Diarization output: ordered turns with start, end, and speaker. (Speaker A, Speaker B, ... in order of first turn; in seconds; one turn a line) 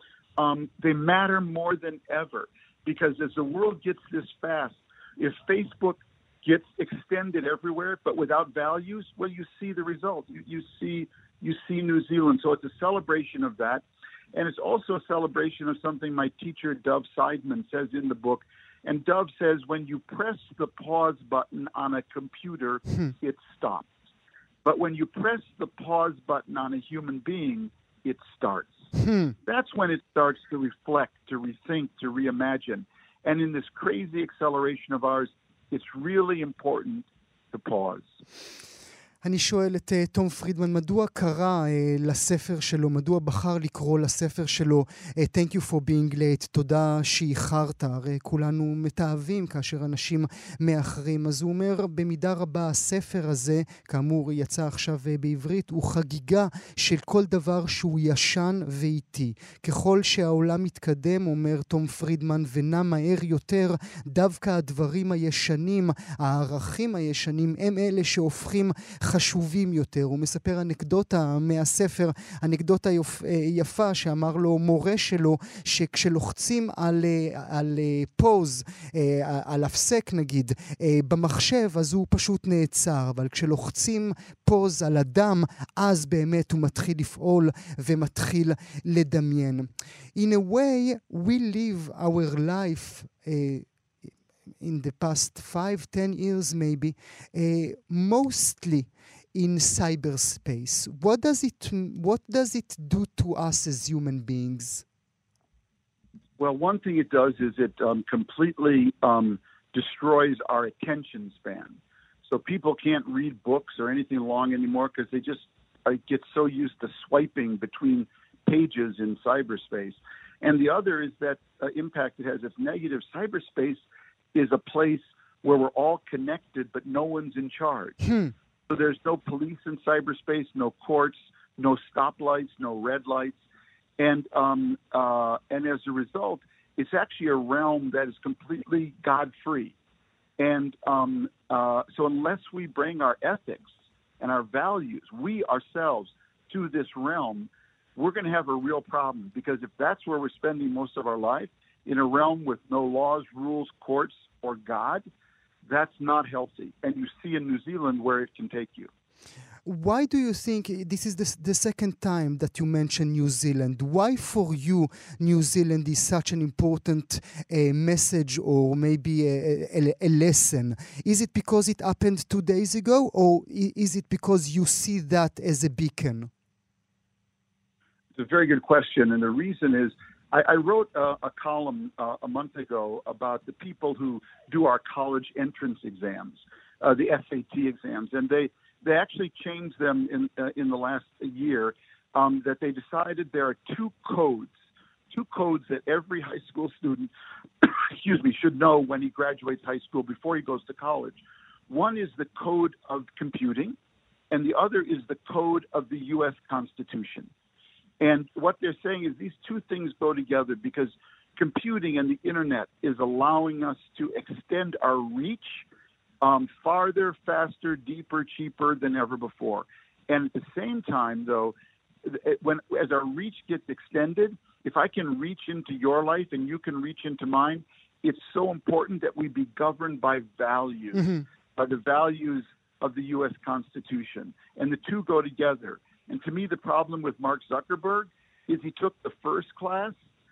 Speaker A: 0.4-23.9
Speaker A: 24.6-28.9
Speaker B: 28.9-29.3
Speaker A: 29.4-38.2
Speaker B: 39.2-93.7
Speaker B: 94.6-104.8
Speaker A: 106.4-123.8
Speaker A: 124.3-128.0
Speaker B: 128.1-128.3
Speaker A: 128.7-133.4
Speaker A: 134.0-139.7
Speaker A: 140.4-155.0
Speaker A: 155.6-158.9
Speaker B: 159.6-176.3
Speaker A: 178.1-194.5
Speaker A: 195.1-203.8
Speaker A: 204.3-207.3
Speaker A: 208.0-215.6
Speaker A: 216.2-239.9
Speaker B: 230.9-231.2